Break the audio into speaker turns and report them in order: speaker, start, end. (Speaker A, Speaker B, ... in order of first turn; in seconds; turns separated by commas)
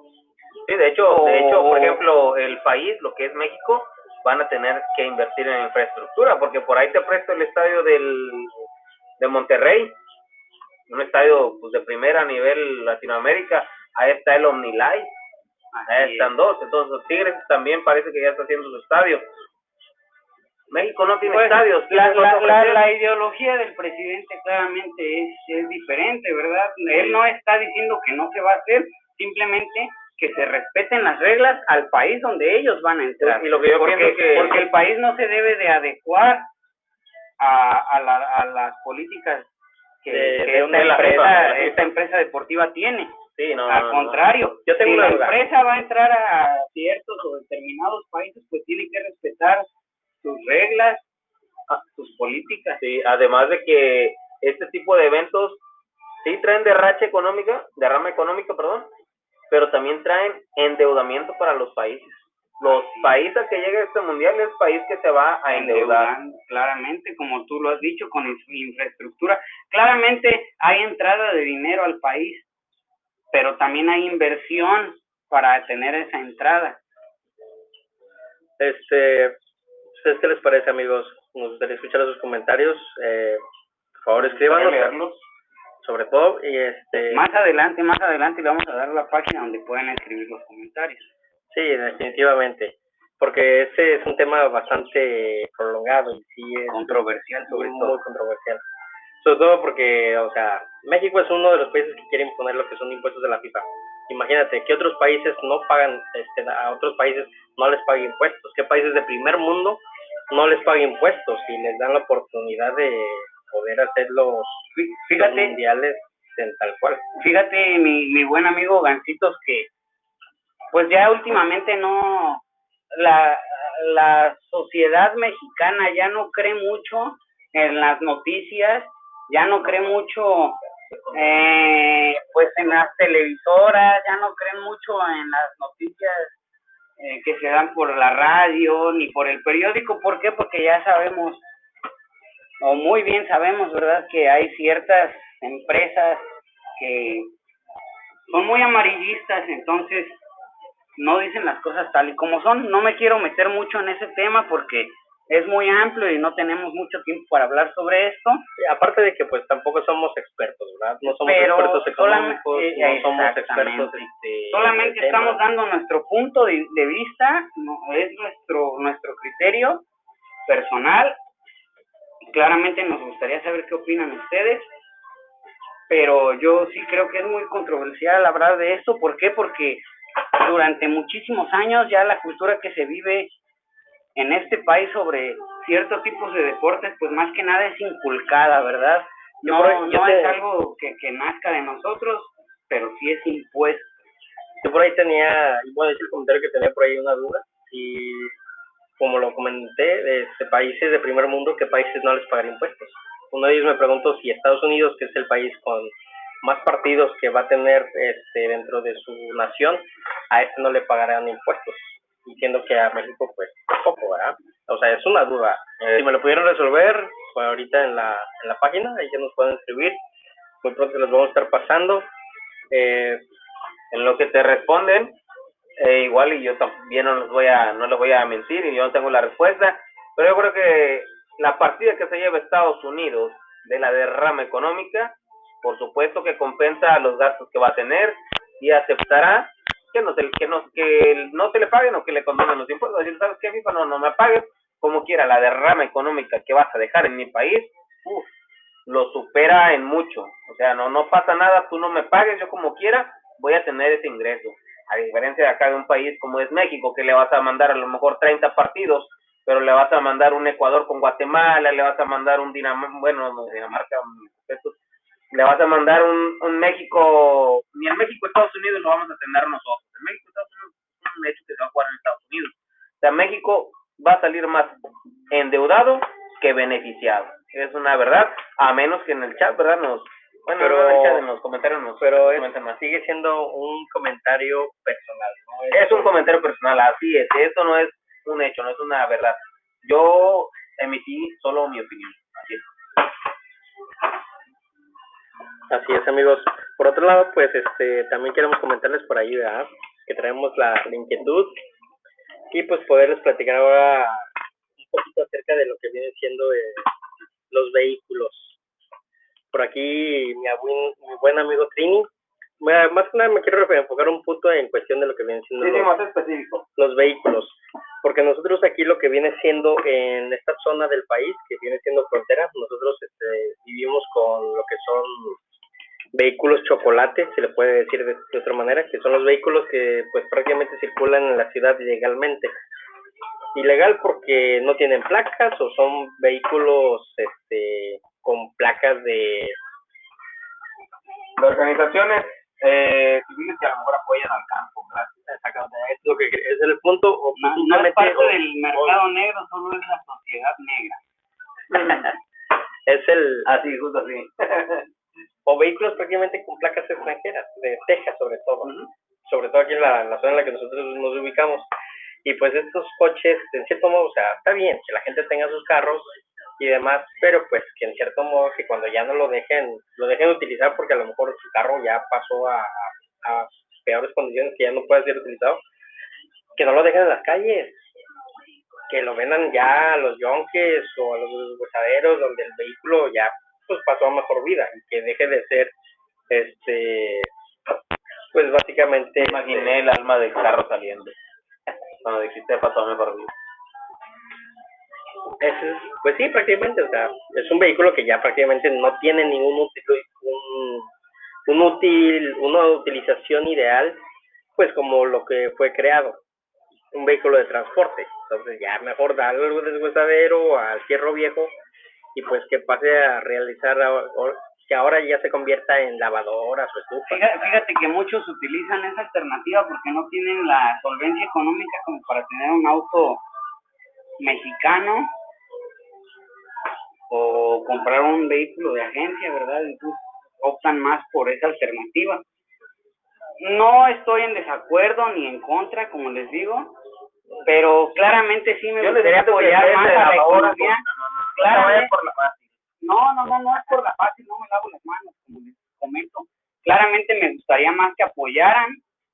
Speaker A: 0.7-8.6, Speaker B: 1.1-2.0, Speaker A: 9.2-10.0, Speaker A: 10.9-15.2, Speaker B: 15.7-16.3, Speaker A: 15.9-19.3, Speaker A: 20.7-22.8, Speaker B: 21.3-36.5, Speaker A: 33.2-34.6, Speaker B: 37.4-39.5, Speaker B: 40.0-43.2, Speaker C: 40.1-41.6, Speaker A: 40.7-41.9, Speaker A: 43.4-44.2, Speaker B: 43.7-49.7, Speaker C: 44.7-45.4, Speaker B: 50.2-51.0, Speaker B: 51.7-52.8, Speaker A: 52.8-55.6, Speaker A: 56.2-58.9, Speaker A: 59.5-66.1, Speaker B: 62.6-63.1, Speaker B: 65.5-72.5, Speaker B: 73.3-76.8, Speaker C: 78.6-79.4, Speaker C: 80.0-83.4, Speaker C: 84.0-84.9, Speaker B: 84.5-85.1, Speaker A: 84.5-85.0, Speaker C: 85.8-87.2, Speaker B: 87.1-91.1, Speaker C: 91.5-98.6, Speaker B: 96.7-98.0, Speaker C: 99.2-117.0, Speaker B: 114.8-115.6, Speaker B: 117.2-119.7, Speaker B: 120.7-130.6, Speaker B: 131.1-136.4, Speaker B: 137.0-141.4, Speaker B: 142.6-147.3, Speaker B: 148.3-150.2, Speaker B: 151.0-158.4, Speaker C: 158.6-165.4, Speaker B: 161.0-169.8, Speaker B: 170.5-171.2, Speaker B: 172.3-174.7, Speaker B: 175.9-179.8, Speaker B: 180.4-183.3, Speaker B: 184.2-194.0, Speaker C: 189.4-190.4, Speaker C: 194.6-198.3, Speaker C: 199.0-220.0, Speaker A: 215.8-216.1, Speaker C: 220.6-222.1, Speaker C: 222.7-223.2, Speaker A: 223.9-225.2, Speaker A: 225.8-248.3, Speaker A: 248.9-264.8, Speaker A: 265.3-274.8, Speaker A: 275.3-282.8, Speaker C: 280.6-281.2, Speaker C: 282.0-286.2, Speaker A: 285.7-292.6, Speaker C: 295.7-301.6, Speaker C: 302.5-306.9, Speaker C: 307.5-308.6, Speaker C: 309.5-312.1, Speaker C: 312.6-315.9, Speaker A: 315.6-316.6, Speaker C: 316.8-325.4, Speaker C: 326.1-332.6, Speaker C: 333.5-339.6, Speaker A: 341.4-345.1, Speaker C: 345.3-349.0, Speaker B: 347.4-351.0, Speaker A: 351.7-352.1, Speaker C: 352.9-353.5, Speaker A: 353.5-354.8, Speaker C: 355.5-358.7, Speaker C: 359.2-361.7, Speaker C: 362.2-375.6, Speaker C: 376.6-377.9, Speaker C: 378.9-385.7, Speaker C: 386.3-387.3, Speaker C: 388.3-389.8, Speaker A: 389.2-391.2, Speaker A: 392.0-393.3, Speaker C: 395.4-400.9, Speaker C: 401.5-404.0, Speaker C: 404.6-406.2, Speaker C: 406.9-411.5, Speaker C: 412.1-417.2, Speaker B: 417.1-423.2, Speaker B: 424.2-425.1, Speaker B: 427.1-432.2, Speaker B: 433.4-436.8, Speaker B: 437.4-440.8, Speaker A: 438.8-442.4, Speaker B: 441.4-441.9, Speaker B: 442.8-448.8